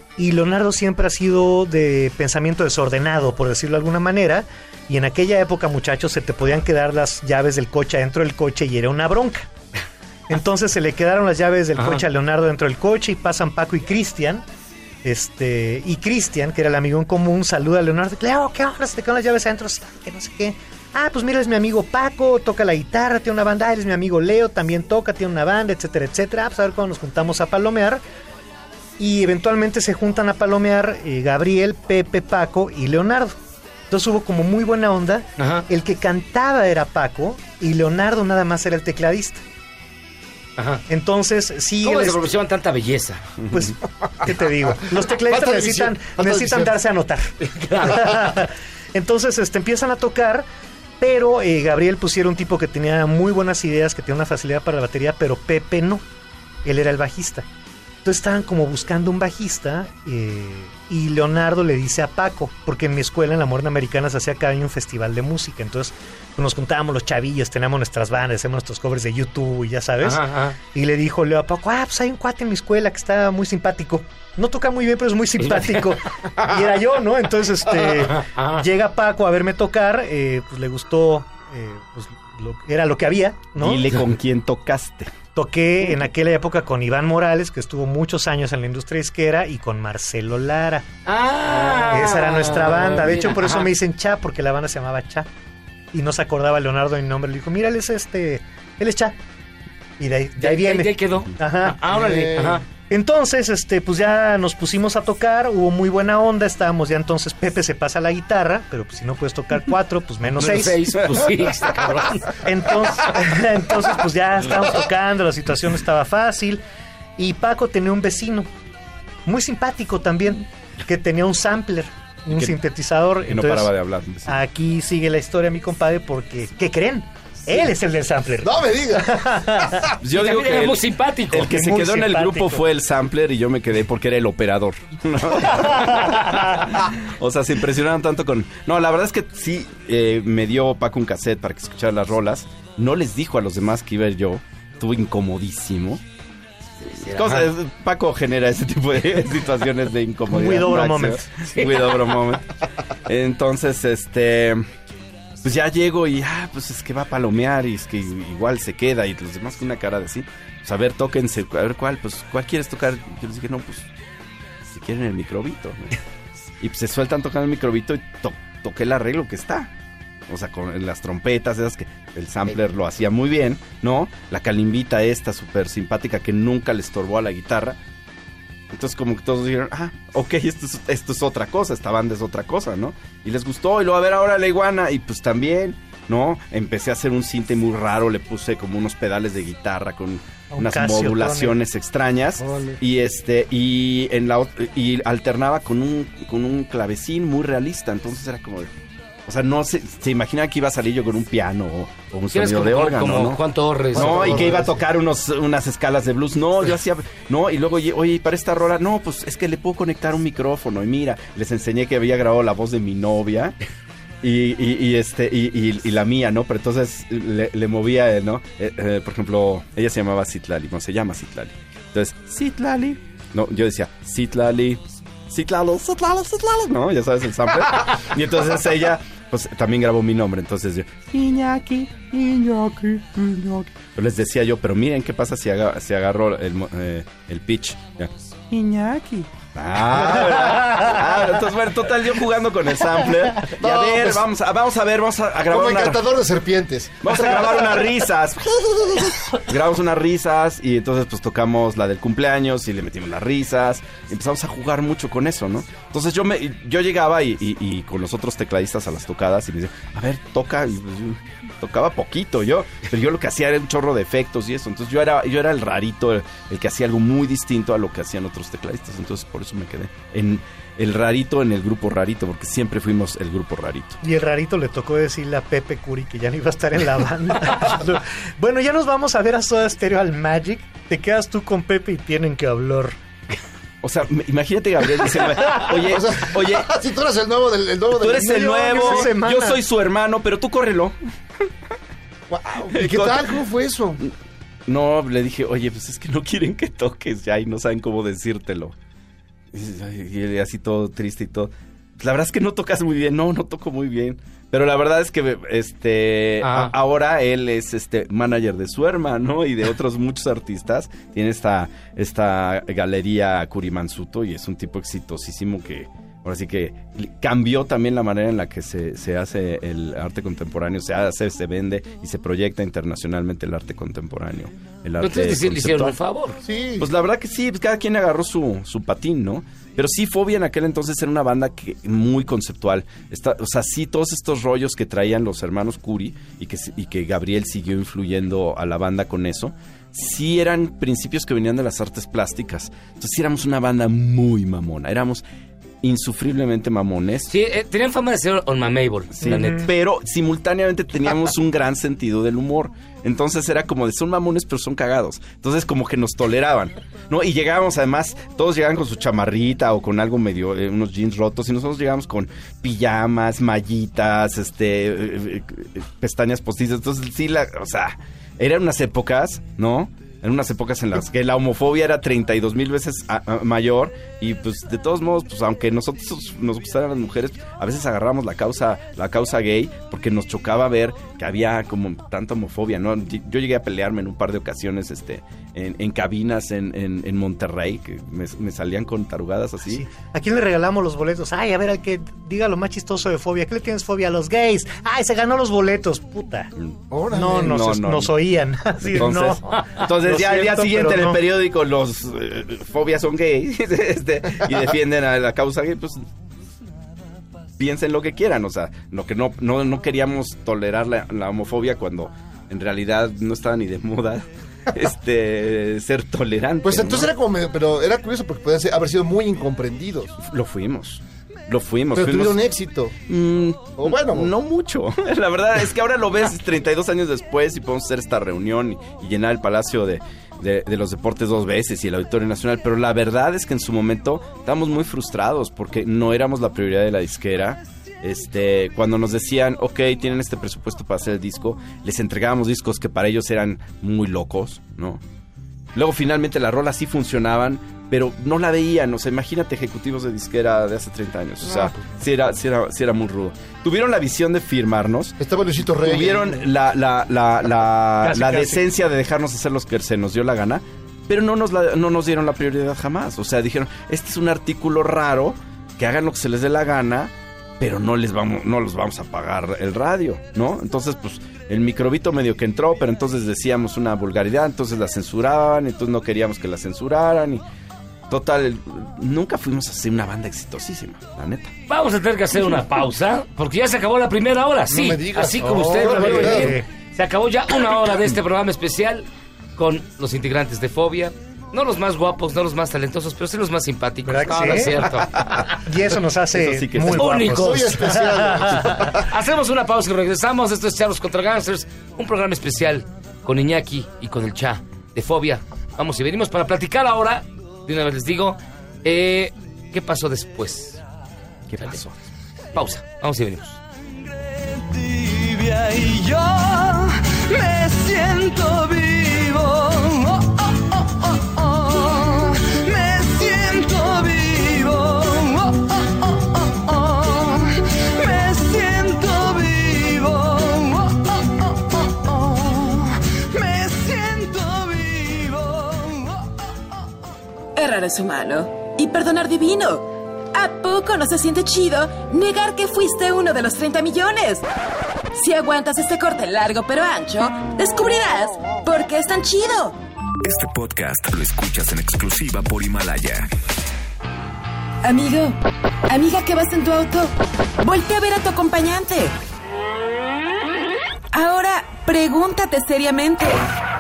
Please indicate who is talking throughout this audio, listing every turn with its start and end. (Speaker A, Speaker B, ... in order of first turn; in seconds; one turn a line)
Speaker A: 0.2-9.5
Speaker A: 10.3-14.4
Speaker A: 15.0-28.0
Speaker A: 29.0-33.4
Speaker A: 33.9-39.4
Speaker B: 35.4-35.7
Speaker B: 40.6-40.8
Speaker A: 40.9-42.3
Speaker B: 41.8-43.3
Speaker C: 43.4-43.7
Speaker A: 43.5-50.5
Speaker D: 45.1-46.8
Speaker B: 47.4-48.1
Speaker A: 51.0-56.0
Speaker A: 56.6-57.5
Speaker A: 58.0-70.2
Speaker B: 70.0-70.6
Speaker A: 70.7-84.0
Speaker B: 75.4-75.9
Speaker B: 77.7-78.6
Speaker C: 83.6-85.1
Speaker A: 85.3-90.9
Speaker B: 91.0-93.7
Speaker A: 91.7-95.3
Speaker A: 95.9-99.1
Speaker A: 100.0-101.8
Speaker B: 100.4-102.6
Speaker D: 101.8-102.6
Speaker A: 102.9-110.9
Speaker B: 110.4-112.4
Speaker C: 110.9-112.1
Speaker A: 112.4-116.6
Speaker A: 117.2-118.5
Speaker A: 119.3-123.7
Speaker C: 122.3-122.5
Speaker C: 123.2-124.4
Speaker A: 124.3-129.9
Speaker D: 128.4-129.5
Speaker C: 130.0-146.0
Speaker B: 130.1-131.6
Speaker A: 131.4-132.6
Speaker A: 136.0-136.6
Speaker B: 146.8-147.5
Speaker C: 146.9-152.5
Speaker A: 150.3-151.3
Speaker B: 151.6-151.8
Speaker C: 153.1-154.7
Speaker C: 155.4-163.9
Speaker C: 164.7-166.0
Speaker C: 166.6-169.7
Speaker C: 170.3-177.8
Speaker C: 178.7-198.7
Speaker A: 190.5-191.6
Speaker D: 192.4-192.8
Speaker C: 199.3-203.4
Speaker B: 202.3-204.7
Speaker C: 203.9-213.6
Speaker D: 203.9-204.7
Speaker C: 214.2-246.1
Speaker D: 243.6-244.2
Speaker D: 245.5-247.9
Speaker C: 247.0-274.0
Speaker D: 248.9-249.1
Speaker A: 274.0-282.9
Speaker C: 283.8-286.7
Speaker D: 285.7-289.1
Speaker C: 287.9-291.0
Speaker A: 288.1-289.6
Speaker D: 292.3-294.0
Speaker C: 292.7-293.4
Speaker C: 294.6-298.7
Speaker C: 299.5-325.9
Speaker B: 306.4-306.7
Speaker B: 325.0-326.4
Speaker D: 326.4-326.9
Speaker C: 326.8-345.2
Speaker C: 345.8-347.3
Speaker B: 347.3-349.7
Speaker C: 349.1-389.9
Speaker A: 349.2-349.7
Speaker A: 389.7-396.5
Speaker C: 396.6-398.1
Speaker D: 396.9-397.6
Speaker A: 397.1-401.2
Speaker C: 398.8-406.1
Speaker C: 407.6-417.1
Speaker D: 416.6-420.2
Speaker C: 420.2-422.4
Speaker D: 421.9-422.9
Speaker C: 423.1-445.0
Speaker D: 423.8-424.3
Speaker C: 445.7-455.2
Speaker A: 451.4-451.8
Speaker D: 455.2-456.4
Speaker C: 455.8-477.4
Speaker A: 458.0-458.6
Speaker C: 478.1-481.5
Speaker B: 481.7-495.5
Speaker D: 484.7-486.5
Speaker A: 485.4-486.6
Speaker A: 494.1-494.9
Speaker C: 494.8-495.5
Speaker A: 495.6-498.8
Speaker C: 496.3-497.3
Speaker B: 496.9-498.0
Speaker D: 497.3-499.1
Speaker B: 499.0-510.8
Speaker C: 511.5-511.9
Speaker B: 512.5-513.6
Speaker E: 514.5-536.2
Speaker F: 537.5-544.5
Speaker F: 545.1-549.8
Speaker G: 550.2-553.3
Speaker F: 554.8-559.1
Speaker F: 561.1-563.4